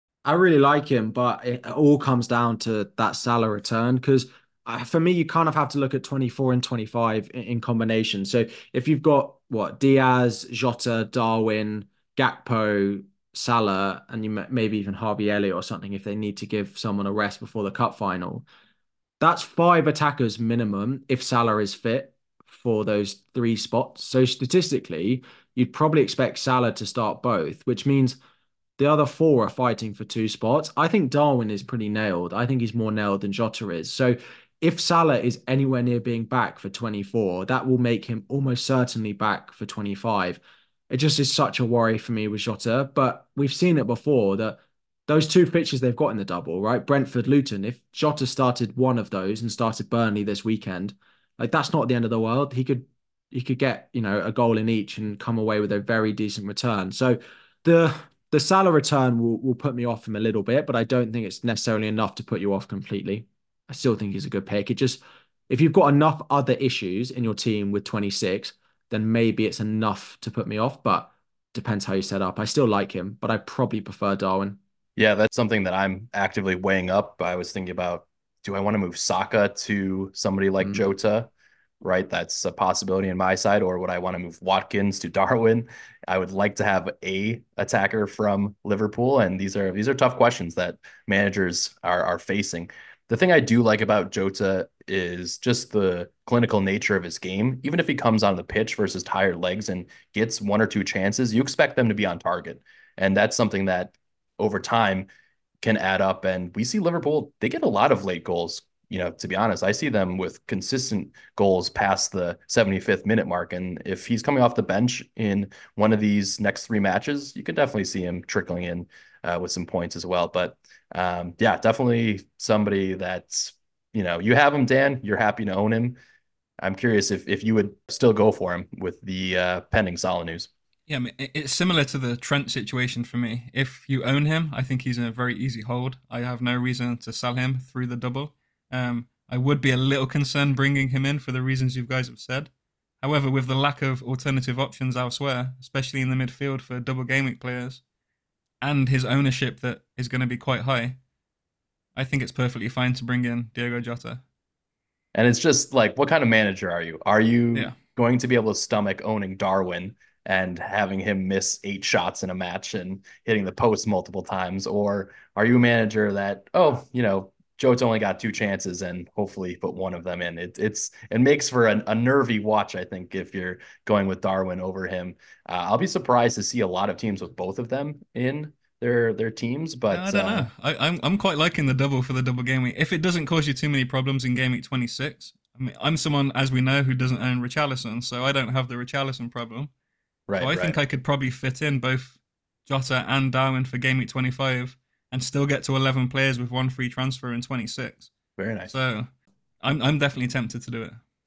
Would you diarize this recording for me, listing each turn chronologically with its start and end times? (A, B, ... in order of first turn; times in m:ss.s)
0:00.2-0:18.4 A
0:19.2-0:28.2 A
0:28.8-1:14.6 A
1:15.0-1:21.3 B
1:21.8-1:45.1 B
1:45.6-2:06.0 B
2:06.6-2:10.5 B
2:10.9-2:22.5 C
2:23.0-2:27.8 C
2:28.6-2:31.0 C
2:32.0-2:34.2 C
2:35.1-3:00.5 B
2:59.9-3:09.7 C
3:10.3-3:10.8 B
3:10.4-3:18.1 C
3:18.4-3:18.7 B
3:18.7-3:19.1 C
3:19.6-3:21.0 C